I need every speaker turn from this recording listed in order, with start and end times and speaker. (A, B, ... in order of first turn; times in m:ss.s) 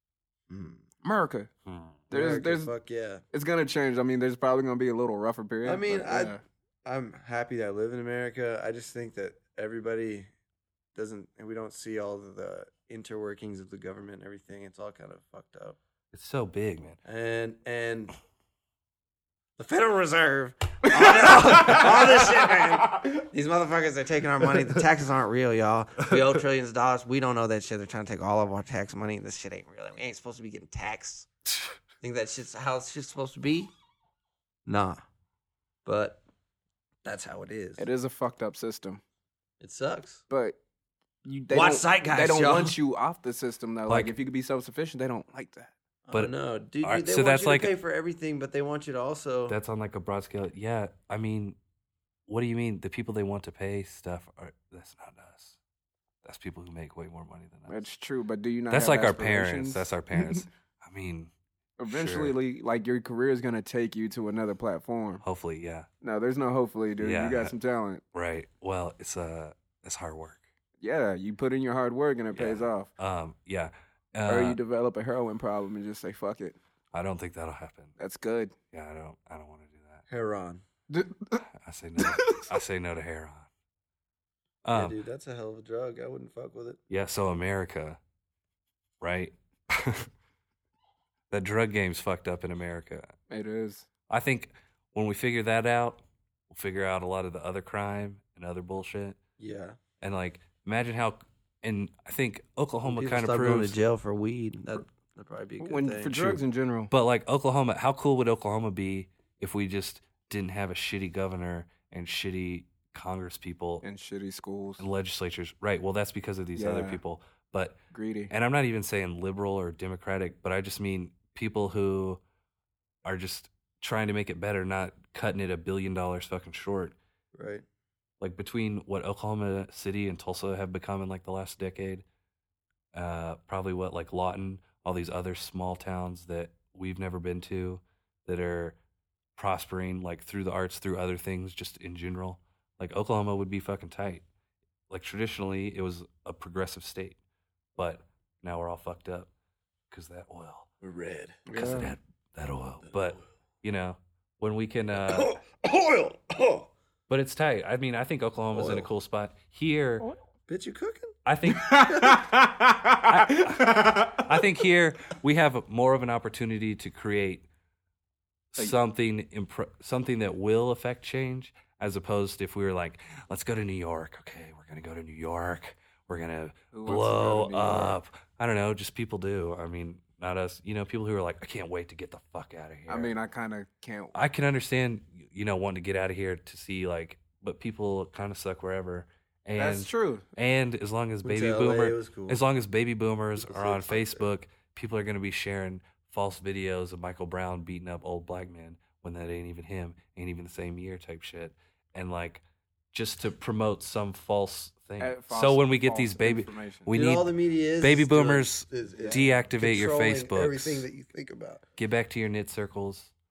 0:00.5-0:00.8 A
0:01.0-0:01.5 B
0:01.7-0:02.1 C
0:02.1-0:02.7 B
0:02.1-0:03.2 A
0:03.3-0:06.4 B
0:05.6-0:10.3 A
0:11.0-0:15.8 A
0:16.1-0:17.0 C
0:17.0-0:18.1 A
0:19.6-0:31.3 A
0:20.9-0:22.3 B
0:32.0-0:33.7 A
0:34.6-0:35.0 A
0:35.8-0:36.2 A
0:37.0-0:37.9 A
0:37.8-0:39.0 B
0:39.6-0:40.2 A
0:40.3-0:40.6 B
0:41.2-0:45.7 B
0:41.5-0:42.8 A
0:43.9-0:44.1 C
0:46.1-0:49.6 A
0:46.8-0:47.7 C
0:49.5-0:51.6 C
0:52.3-0:55.6 C
0:56.2-0:57.8 C
0:57.7-1:00.4 B
0:58.7-1:01.3 C
1:01.8-1:05.2 B
1:01.9-1:02.4 C
1:05.2-1:05.9 C
1:06.0-1:08.0 B
1:07.0-1:07.5 C
1:08.1-1:10.4 C
1:10.8-1:12.9 B
1:12.3-1:14.6 C
1:14.2-1:16.6 B
1:16.9-1:18.0 C
1:18.0-1:18.6 B
1:18.7-1:20.0 C
1:20.1-1:20.6 A
1:20.9-1:21.4 B
1:21.6-1:23.5 C
1:22.0-1:22.5 B
1:24.6-1:25.0 C
1:24.7-1:26.8 A
1:26.9-1:28.0 C
1:29.0-1:30.1 C
1:31.3-1:33.1 C
1:33.3-1:33.9 B
1:34.1-1:39.2 C
1:39.4-1:39.8 A
1:40.0-1:43.8 C
1:42.9-1:46.4 A
1:45.6-1:46.9 B
1:46.9-1:53.8 C
1:53.8-1:54.8 B
1:54.8-1:57.8 C
1:56.6-1:57.0 B
1:57.9-1:58.3 B
1:58.3-2:02.2 C
2:03.0-2:07.0 C
2:07.3-2:07.6 A
2:08.2-2:12.0 C
2:12.9-2:18.8 C
2:19.4-2:24.2 C
2:24.9-2:27.2 C
2:27.8-2:29.3 C
2:29.9-2:30.7 C
2:30.8-2:31.9 A
2:31.5-2:35.3 C
2:34.9-2:36.7 A
2:37.1-2:40.1 C
2:38.5-2:38.9 A
2:40.5-2:41.1 A
2:41.2-2:42.2 C
2:41.5-2:44.3 B
2:43.0-2:47.5 C
2:48.5-3:03.2 C
2:56.7-2:58.0 B
3:02.9-3:04.1 B
3:04.1-3:27.3 C
3:09.6-3:10.3 B
3:11.2-3:12.4 A
3:13.4-3:14.3 A
3:25.0-3:26.9 B
3:26.9-3:31.6 A
3:27.8-3:30.9 C
3:28.9-3:29.3 B
3:31.8-3:33.1 C